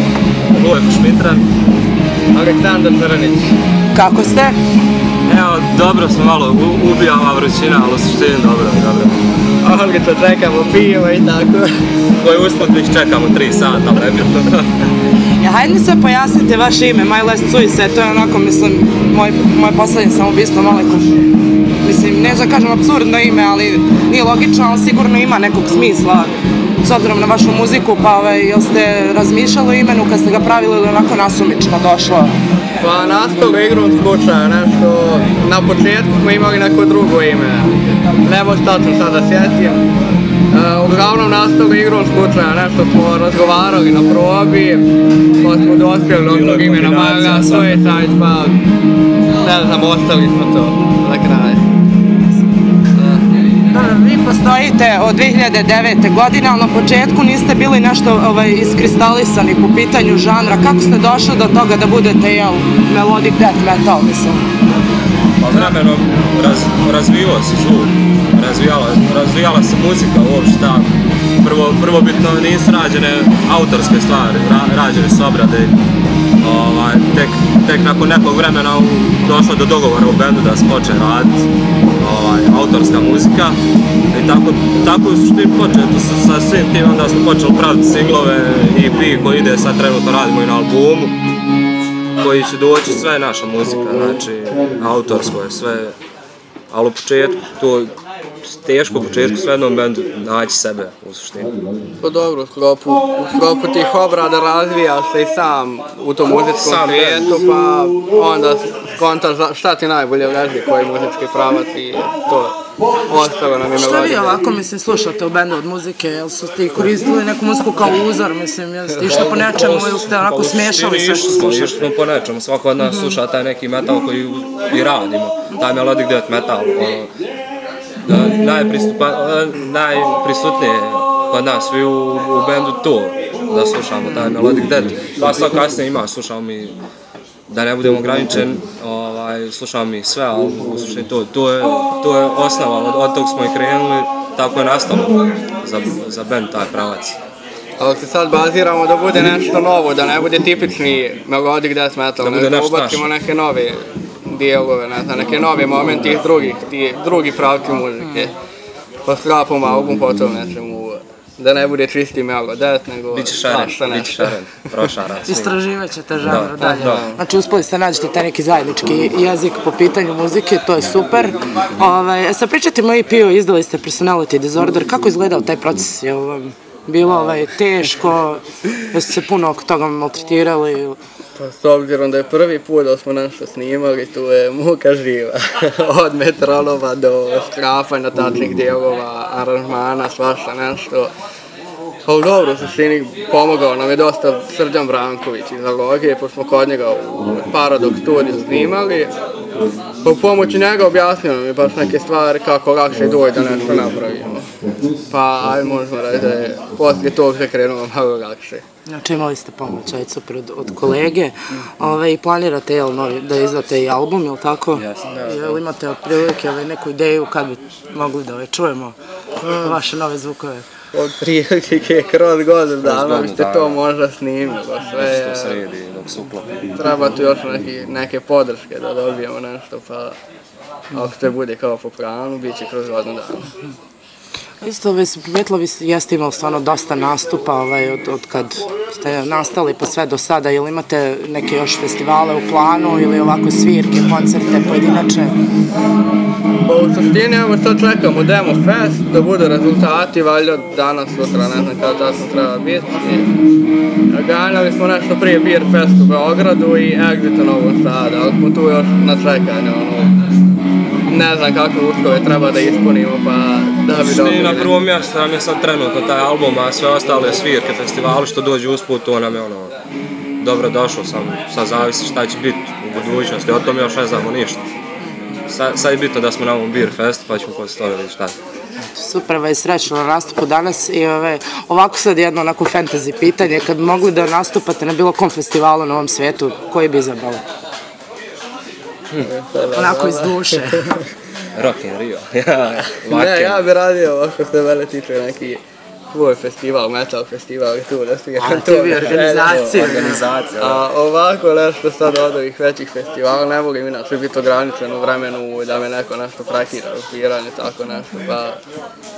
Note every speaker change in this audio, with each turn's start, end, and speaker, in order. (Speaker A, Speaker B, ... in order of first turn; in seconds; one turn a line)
Speaker A: 0.5-1.4
Speaker B: 2.3-3.5
Speaker C: 3.9-4.5
Speaker A: 5.2-9.2
Speaker B: 9.6-11.7
Speaker A: 12.2-14.7
Speaker C: 15.4-21.1
Speaker C: 21.8-26.3
Speaker C: 26.8-32.3
Speaker B: 32.8-39.8
Speaker B: 40.5-44.9
Speaker B: 45.4-48.6
Speaker A: 46.2-48.0
Speaker B: 49.4-51.6
Speaker B: 53.0-53.2
Speaker C: 53.7-64.4
Speaker A: 65.4-70.9
Speaker A: 71.4-75.8
Speaker A: 76.4-83.5
Speaker A: 84.1-91.2
Speaker A: 92.2-96.0
Speaker A: 96.7-101.5
Speaker B: 102.0-112.6
Speaker A: 106.5-107.3
Speaker B: 113.1-114.4
Speaker C: 113.7-121.8
Speaker A: 119.1-127.1
Speaker A: 128.0-136.8
Speaker A: 137.5-147.2
Speaker B: 147.8-158.3
Speaker A: 152.2-153.1
Speaker B: 159.0-164.4
Speaker A: 163.1-165.6
Speaker C: 165.3-181.0
Speaker A: 166.2-167.1
Speaker B: 166.6-167.2
Speaker B: 181.4-191.1
Speaker B: 192.0-199.1
Speaker B: 200.0-204.5
Speaker B: 205.1-208.6
Speaker C: 208.8-220.7
Speaker A: 214.7-215.6
Speaker B: 220.9-225.6
Speaker A: 222.8-223.8
Speaker A: 225.0-226.8
Speaker B: 226.8-230.2
Speaker B: 230.9-233.5
Speaker C: 234.6-245.3
Speaker B: 246.7-253.3
Speaker B: 254.1-260.1
Speaker B: 261.1-264.7
Speaker A: 264.0-269.7
Speaker A: 270.4-274.6
Speaker A: 275.5-278.3
Speaker C: 278.9-287.4
Speaker B: 289.2-290.9
Speaker C: 289.7-290.9
Speaker A: 291.5-293.6
Speaker B: 293.0-295.6
Speaker B: 296.1-308.6
Speaker C: 298.4-300.2
Speaker A: 299.0-300.8